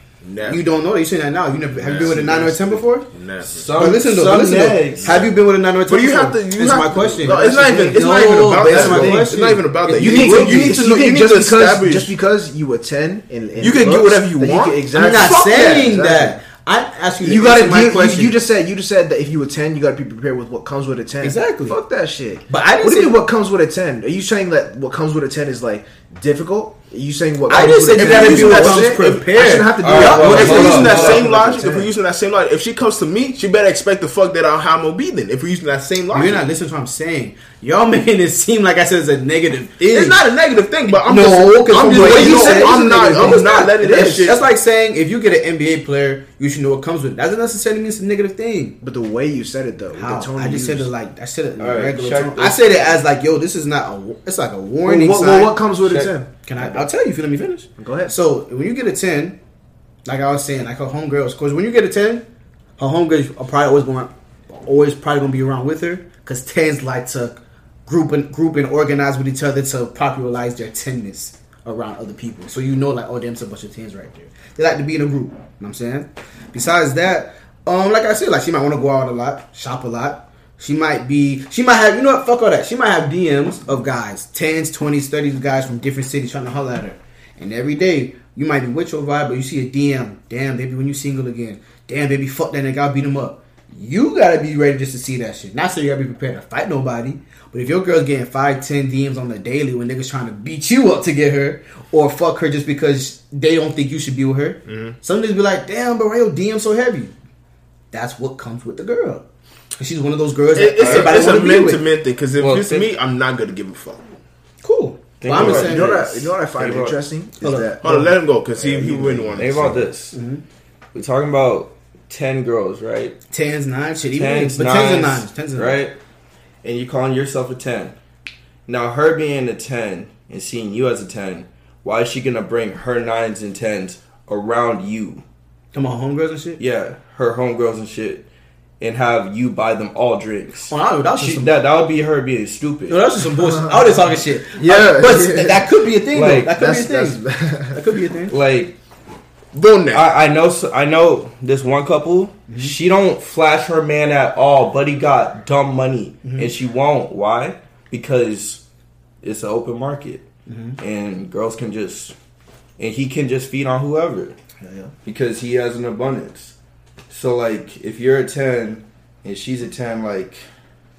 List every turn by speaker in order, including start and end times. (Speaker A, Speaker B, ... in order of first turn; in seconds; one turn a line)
Speaker A: 0.2-0.6
Speaker B: 0.4-3.1
Speaker A: 1.7-3.7
Speaker C: 3.5-5.3
Speaker B: 3.8-10.9
Speaker A: 5.9-12.1
Speaker D: 7.2-8.0
Speaker D: 8.5-9.3
Speaker D: 9.9-16.4
Speaker A: 13.6-15.9
Speaker B: 14.9-18.4
Speaker D: 17.2-31.9
Speaker B: 21.2-21.8
Speaker B: 22.5-23.2
Speaker B: 27.5-31.2
Speaker A: 27.9-28.9
Speaker C: 29.8-31.1
Speaker A: 30.2-36.4
Speaker B: 36.1-40.2
Speaker A: 39.8-44.4
Speaker B: 40.9-48.8
Speaker D: 41.7-44.2
Speaker D: 48.8-50.9
Speaker B: 49.9-55.6
Speaker C: 51.6-52.8
Speaker D: 54.8-56.3
Speaker B: 56.4-59.4
Speaker D: 57.8-58.1
Speaker B: 60.0-62.2
Speaker B: 62.8-107.1
Speaker A: 104.7-105.0
Speaker B: 107.9-109.2
Speaker B: 109.8-111.8
Speaker A: 110.5-114.0
Speaker C: 110.8-111.4
Speaker C: 112.4-112.9
Speaker B: 114.6-116.2
Speaker C: 115.2-117.0
Speaker D: 115.3-119.8
Speaker B: 117.4-117.7
Speaker A: 117.8-119.8
Speaker C: 119.3-120.2
Speaker B: 120.1-120.4
Speaker C: 120.9-123.2
Speaker B: 123.3-125.8
Speaker C: 124.1-126.0
Speaker C: 126.6-128.0
Speaker C: 128.7-135.2
Speaker B: 135.7-136.6
Speaker C: 136.6-138.3
Speaker C: 138.8-143.0
Speaker B: 140.7-141.5
Speaker B: 142.9-148.3
Speaker D: 144.5-145.7
Speaker C: 146.1-146.6
Speaker D: 146.5-147.8
Speaker C: 148.3-148.8
Speaker A: 149.5-150.1
Speaker C: 149.9-158.6
Speaker B: 152.5-152.7
Speaker B: 156.2-156.5
Speaker C: 159.2-160.2
Speaker B: 160.5-160.8
Speaker C: 160.8-162.1
Speaker C: 162.8-164.3
Speaker B: 164.6-164.9
Speaker C: 165.0-166.5
Speaker C: 167.1-170.4